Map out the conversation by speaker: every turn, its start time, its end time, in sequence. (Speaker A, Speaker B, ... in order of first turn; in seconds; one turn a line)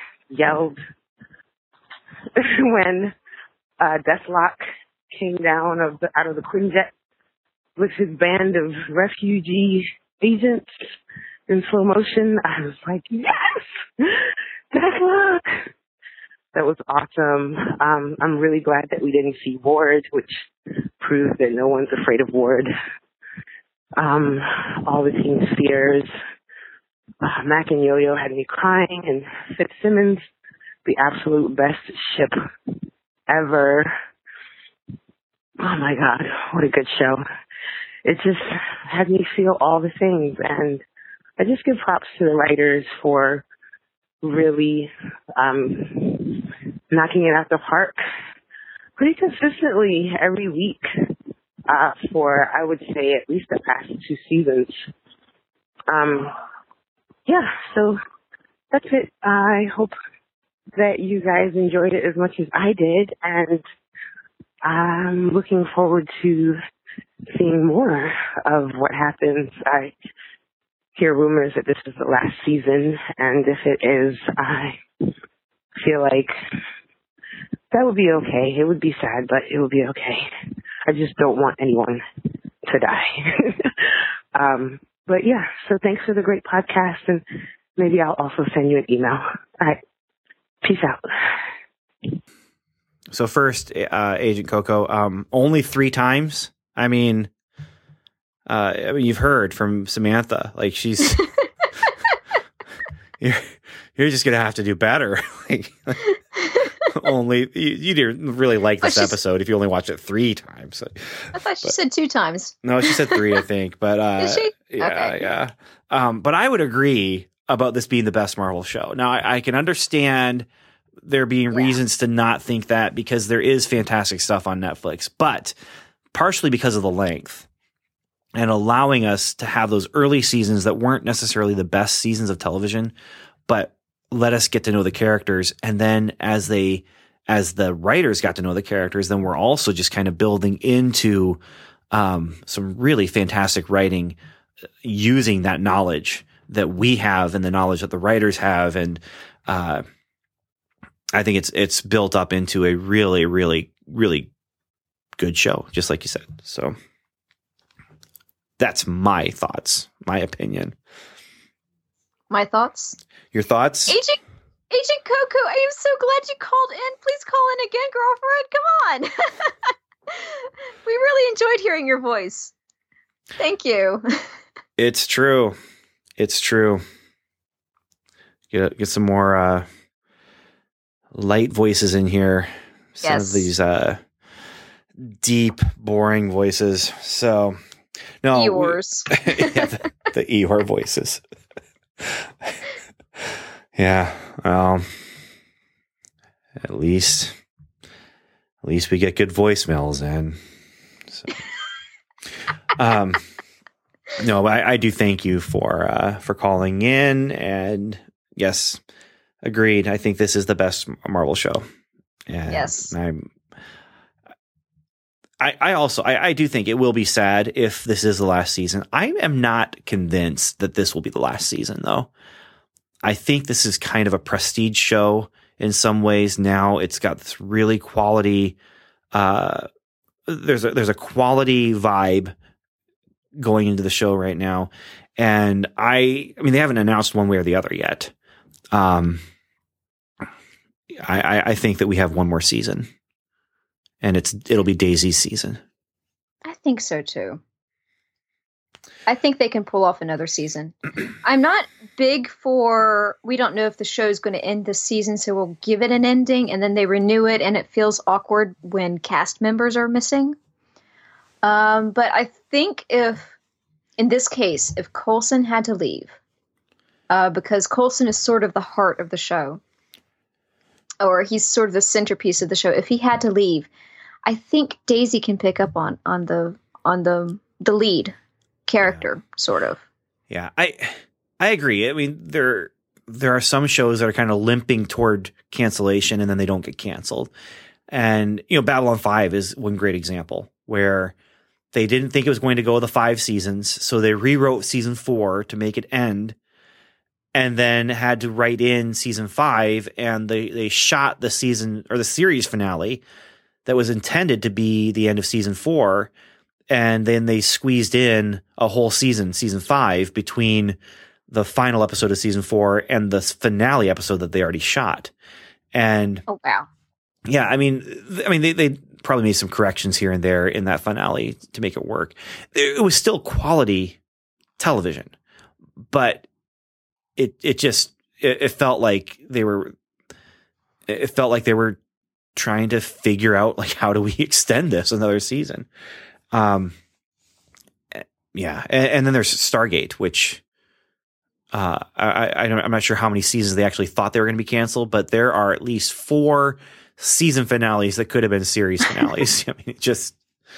Speaker A: 0.3-0.8
Speaker A: 2.3-3.1
Speaker A: 3.8-4.6
Speaker A: 5.1-6.9
Speaker A: 7.8-10.6
Speaker A: 11.5-15.5
Speaker A: 16.5-20.4
Speaker A: 21.0-22.7
Speaker A: 24.0-26.1
Speaker A: 27.2-30.2
Speaker A: 30.8-32.3
Speaker A: 33.3-33.9
Speaker A: 35.6-37.2
Speaker A: 38.0-40.8
Speaker A: 41.4-43.4
Speaker A: 44.2-48.0
Speaker A: 49.0-50.8
Speaker A: 51.7-54.8
Speaker A: 55.9-56.3
Speaker A: 57.3-58.0
Speaker A: 58.7-59.9
Speaker A: 60.8-63.6
Speaker A: 64.6-66.6
Speaker A: 67.3-69.9
Speaker A: 71.0-74.8
Speaker A: 75.8-76.3
Speaker A: 77.7-80.3
Speaker A: 80.9-82.0
Speaker A: 82.7-83.7
Speaker A: 84.3-87.2
Speaker A: 87.8-89.8
Speaker A: 90.6-91.1
Speaker B: 93.1-97.3
Speaker B: 98.5-101.2
Speaker B: 103.2-106.1
Speaker B: 106.8-111.7
Speaker C: 108.8-109.2
Speaker C: 111.3-113.4
Speaker B: 112.6-120.5
Speaker C: 114.2-115.2
Speaker B: 121.0-125.5
Speaker C: 121.5-121.8
Speaker B: 126.1-127.5
Speaker B: 128.3-132.9
Speaker B: 133.5-141.4
Speaker B: 141.9-144.2
Speaker B: 144.8-149.8
Speaker B: 151.1-154.3
Speaker B: 155.2-156.7
Speaker B: 158.6-160.7
Speaker C: 162.3-163.0
Speaker B: 163.3-164.0
Speaker C: 163.9-172.5
Speaker C: 173.4-174.2
Speaker B: 174.8-175.6
Speaker B: 176.2-176.8
Speaker B: 178.5-179.7
Speaker B: 181.1-184.0
Speaker C: 183.0-183.5
Speaker B: 185.0-187.6
Speaker B: 188.2-191.2
Speaker C: 188.3-189.8
Speaker B: 192.0-192.6
Speaker B: 193.7-194.9
Speaker B: 196.6-197.3
Speaker B: 198.6-200.4
Speaker B: 202.7-203.2
Speaker B: 204.2-208.8
Speaker B: 209.4-211.6
Speaker B: 212.3-213.2
Speaker C: 212.5-212.9
Speaker B: 215.4-222.1
Speaker B: 223.0-228.6
Speaker B: 229.1-229.7
Speaker B: 230.3-232.3
Speaker B: 233.4-238.1
Speaker B: 238.7-239.2
Speaker B: 240.9-242.9
Speaker B: 244.0-245.6
Speaker C: 246.4-247.4
Speaker C: 249.1-260.4
Speaker C: 261.4-263.4
Speaker C: 264.0-266.1
Speaker C: 267.1-269.6
Speaker C: 271.0-273.7
Speaker C: 274.2-278.1
Speaker C: 278.7-279.8
Speaker B: 280.3-287.3
Speaker B: 287.9-291.1
Speaker B: 291.7-296.4
Speaker B: 297.3-303.0
Speaker B: 303.6-306.1
Speaker B: 306.7-310.8
Speaker B: 311.3-315.1
Speaker B: 315.7-316.2
Speaker C: 316.3-316.7
Speaker B: 317.2-324.0
Speaker B: 324.6-325.1
Speaker B: 325.9-326.2
Speaker B: 327.2-329.7
Speaker B: 330.9-331.8
Speaker B: 332.4-335.7
Speaker B: 336.3-336.7
Speaker B: 337.9-340.4
Speaker B: 341.5-350.2